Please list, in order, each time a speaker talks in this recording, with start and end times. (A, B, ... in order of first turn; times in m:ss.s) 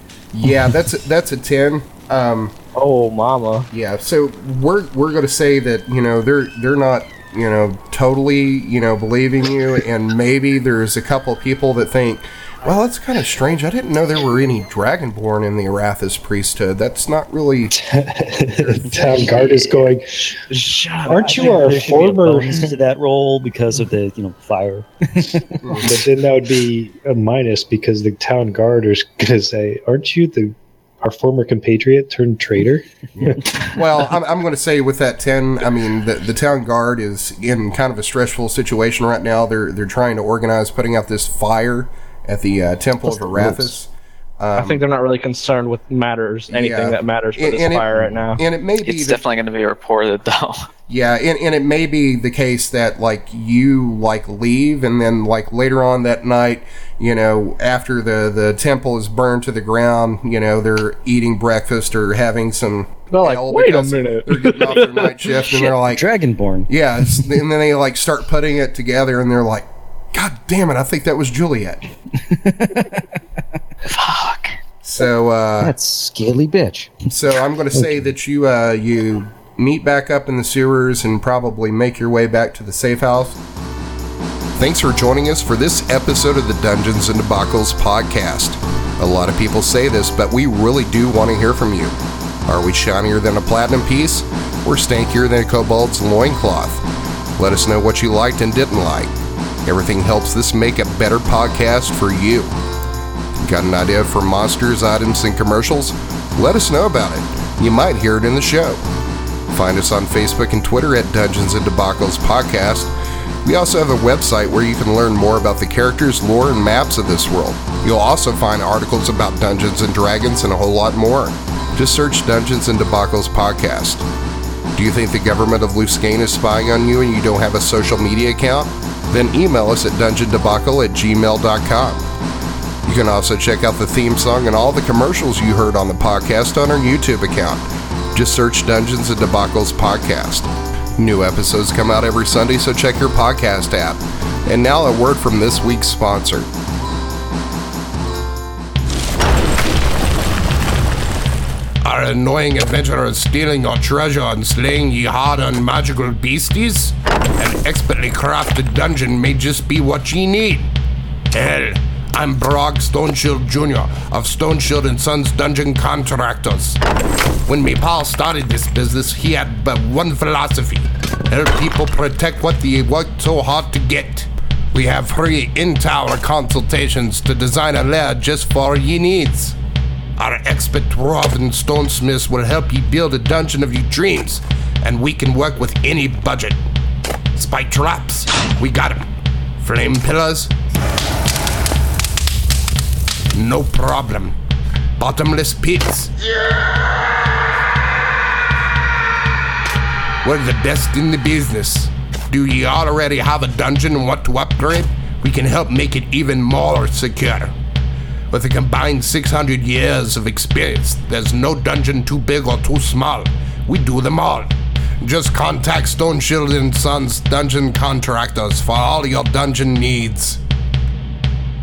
0:00.3-0:02.5 A
0:02.8-0:03.7 B
0:03.7-0:17.8 A
0:17.7-0:20.4 C
0:18.6-0:19.1 A
0:20.5-0:22.1 B
0:21.1-0:22.7 C
0:21.2-0:25.8 D
0:25.6-0:25.9 A
0:25.8-0:32.9 C
0:33.1-0:44.8 A
0:44.6-0:48.4 B
0:46.5-0:49.2 A
0:48.8-0:50.7 E
0:50.9-1:06.1 A
1:03.1-1:05.2 B
1:05.9-1:06.7 D
1:06.7-1:11.9 A
1:12.3-1:13.0 D
1:13.8-1:14.6 E
1:14.8-1:15.8 A
1:15.6-1:17.0 D
1:17.1-1:23.4 A
1:24.6-1:32.0 A
1:32.5-1:36.8 A
1:37.4-1:39.1 A
1:39.7-1:42.6 A
1:43.4-1:48.8 A
1:49.5-1:52.9 A
1:53.4-2:04.0 A
2:04.8-2:12.1 A
2:12.8-2:26.5 A
2:31.8-2:40.7 A
2:41.3-2:46.8 A
2:47.5-2:59.6 A
3:00.2-3:06.6 A
3:07.3-3:09.0 A
3:09.6-3:10.5 A
3:13.3-3:14.4 A
3:15.0-3:16.1 A
3:20.2-3:27.5 A
3:28.3-3:40.4 A